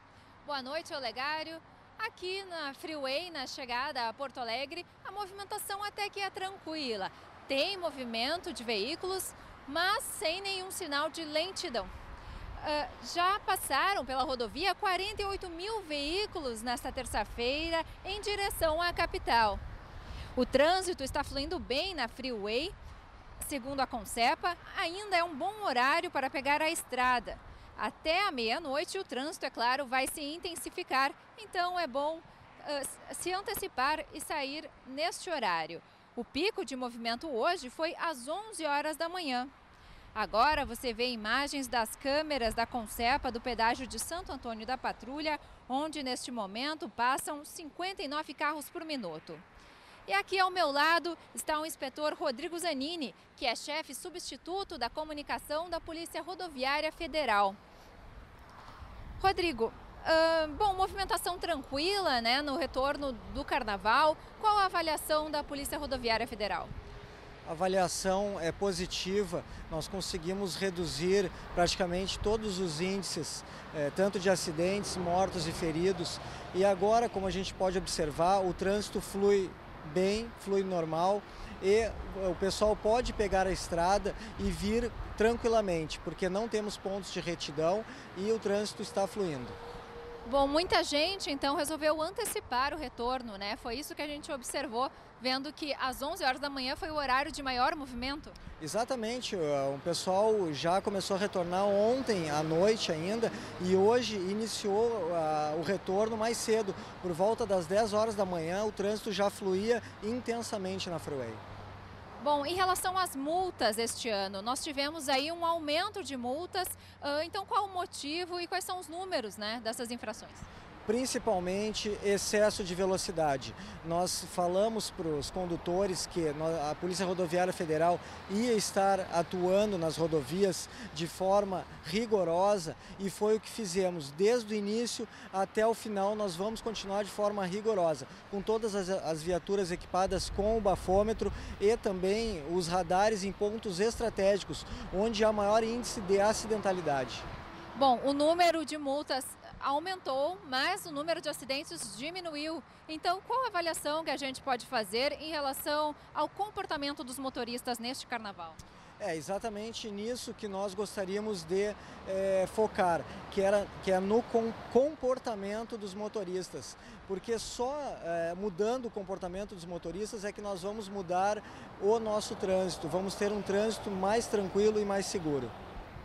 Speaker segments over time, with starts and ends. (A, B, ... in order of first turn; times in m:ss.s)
0:00.4-0:11.9 A
0:12.6-0:19.6 A
0:20.3-0:22.7 A
0:23.4-0:39.5 A
0:40.1-0:49.4 A
0:50.1-0:57.6 A
0:59.2-1:06.7 A
1:07.4-1:29.6 B
1:30.2-1:38.4 A
1:38.6-1:51.4 B
1:52.2-2:00.5 A
2:00.8-2:27.2 B
2:27.7-2:38.6 A
2:39.0-2:55.5 B